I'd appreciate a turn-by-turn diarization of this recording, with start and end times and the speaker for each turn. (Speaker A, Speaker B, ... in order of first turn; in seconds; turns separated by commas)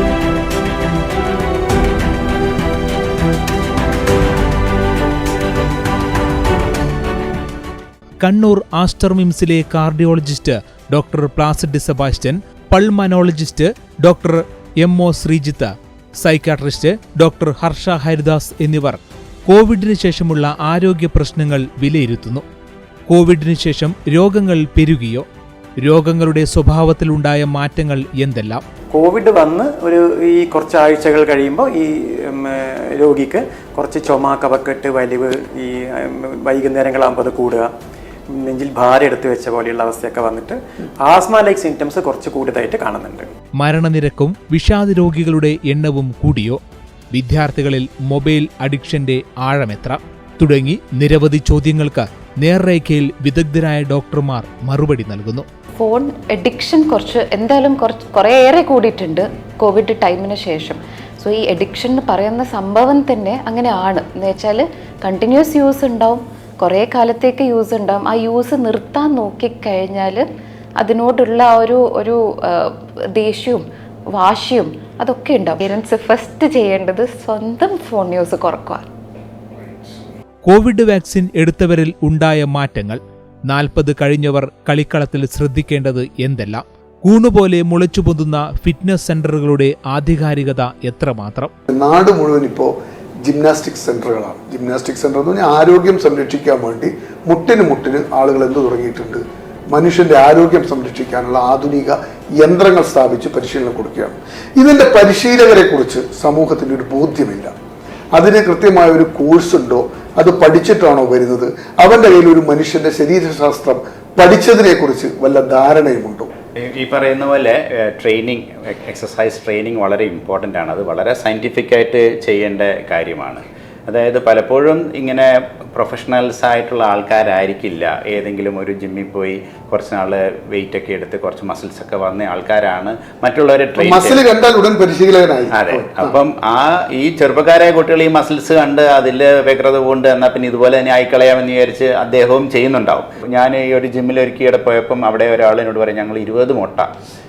Speaker A: 8.2-22.4, Speaker A: 23.1-25.3, Speaker A: 25.8-28.6, Speaker B: 28.9-37.7, Speaker B: 38.3-43.3, Speaker A: 43.6-46.6, Speaker A: 47.1-55.5, Speaker C: 55.8-70.2, Speaker C: 70.8-78.9, Speaker A: 80.4-91.5, Speaker D: 91.7-107.5, Speaker D: 108.1-116.3, Speaker E: 116.6-134.2, Speaker D: 133.8-136.2, Speaker E: 135.6-146.9